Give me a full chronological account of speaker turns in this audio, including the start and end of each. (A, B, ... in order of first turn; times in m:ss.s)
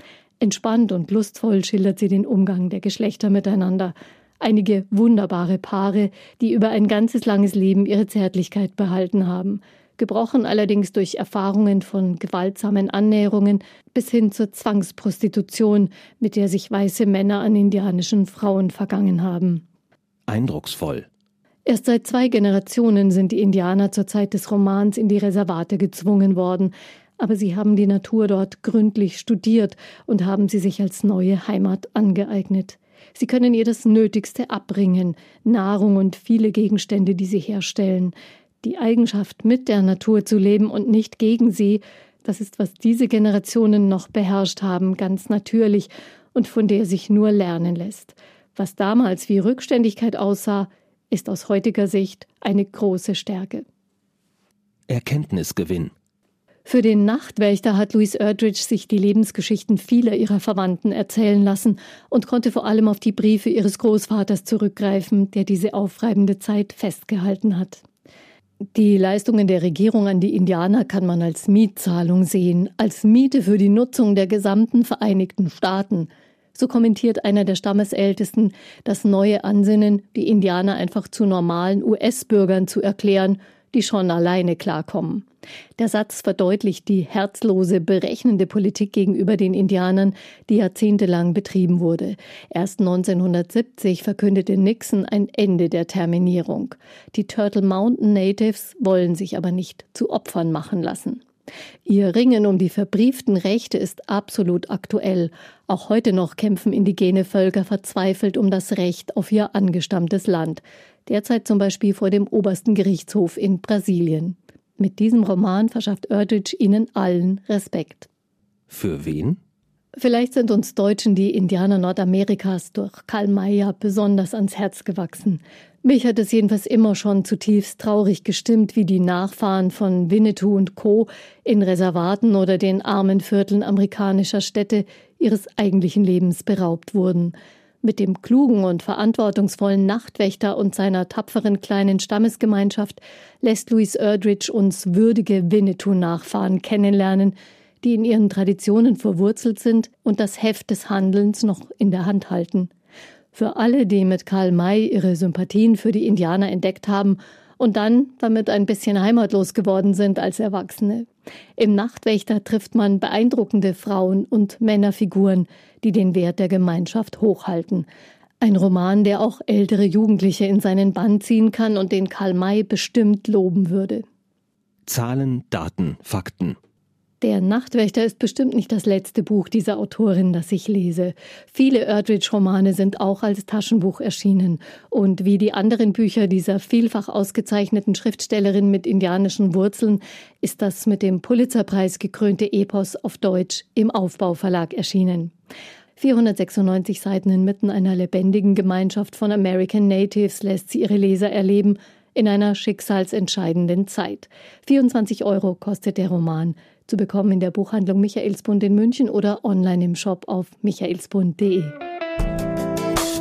0:00.4-0:19.6 A
0:20.3-0:21.1 B
0:21.7-0:53.6 A
0:54.9-0:55.9 B
0:56.7-1:07.8 A
1:08.8-1:41.2 A
1:41.9-1:58.1 A
1:58.7-1:59.4 B
2:00.0-2:32.7 A
2:33.3-2:47.9 A
2:48.4-2:54.0 A
2:54.9-2:56.6 B
2:57.2-3:15.3 A
3:16.0-3:31.8 A